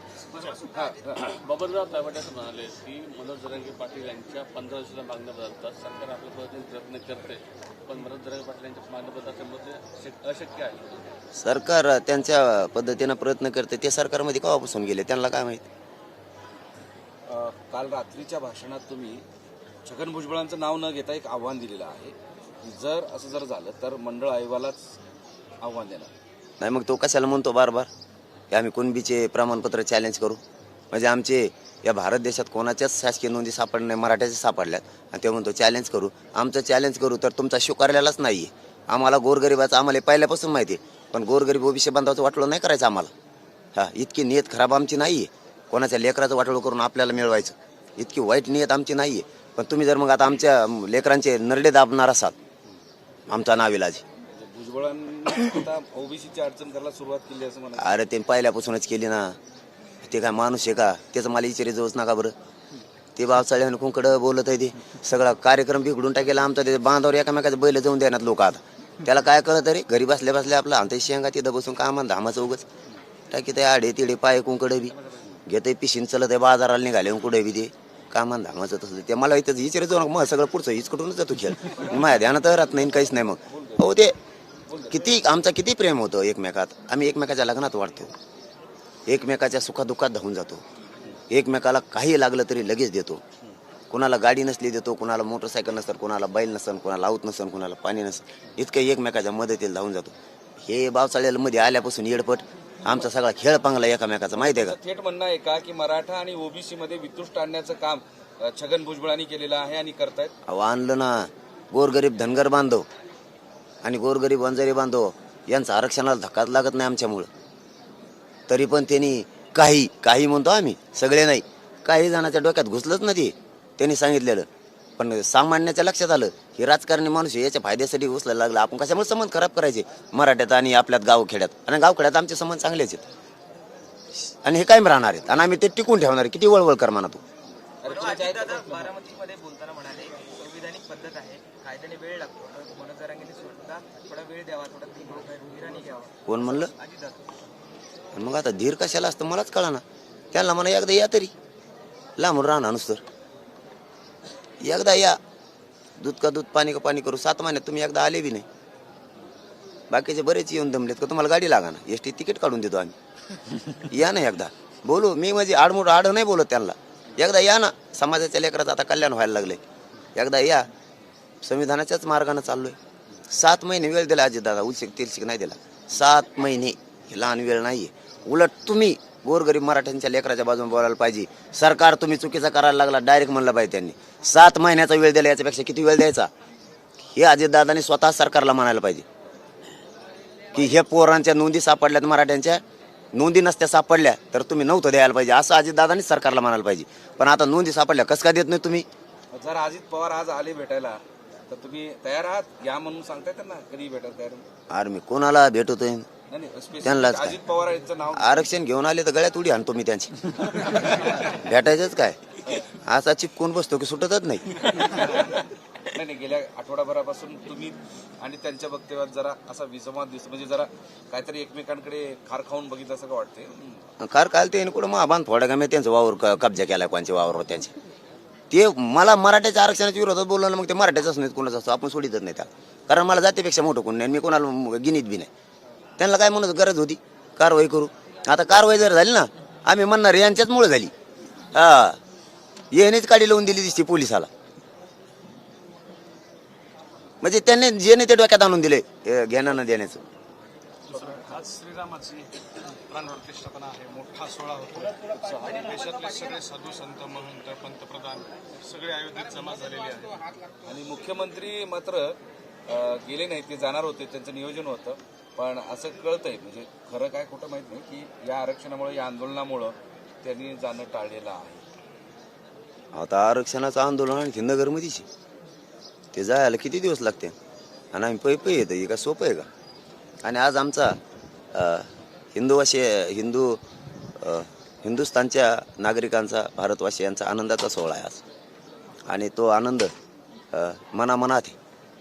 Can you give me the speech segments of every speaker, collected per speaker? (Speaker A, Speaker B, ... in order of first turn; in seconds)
Speaker A: 0.6-1.4, 17.3-19.2, 19.9-25.0, 25.6-26.1, 54.3-58.0, 83.5-83.9, 84.7-85.3, 104.3-110.3, 137.8-138.9, 199.3-204.5, 206.3-208.4, 214.7-223.8, 250.9-251.2, 260.6-262.1, 262.7-271.6
Speaker B: 1.3-11.1
Speaker C: 11.3-15.7, 26.6-27.9, 28.5-43.1, 43.8-52.4, 53.3-54.0, 57.8-59.4, 60.0-62.4, 63.1-72.6, 73.3-84.1, 84.9-88.1, 89.1-90.6, 91.3-93.2, 93.9-100.1, 100.7-104.8, 110.5-112.9, 113.8-117.3, 118.5-124.5, 125.0-133.1, 134.1-137.2, 146.3-146.7, 148.1-151.3, 152.2-153.0, 154.6-155.2, 156.0-158.5, 159.9-162.9, 163.9-169.6, 170.1-170.7, 171.4-172.8, 173.3-186.3, 187.1-189.0, 190.5-192.6, 193.1-198.9, 204.7-206.1, 206.8-207.4, 208.1-212.2, 212.7-214.5, 224.0-227.7, 228.5-235.3, 236.0-240.9, 241.5-242.0, 242.7-244.3, 247.2-250.0, 272.9-275.1, 276.1-277.3, 277.9-279.5, 280.2-281.0, 281.5-283.6, 284.2-288.2, 289.1-289.9, 290.5-291.6
Speaker D: 137.9-147.2
Speaker E: 250.9-252.3, 252.9-260.3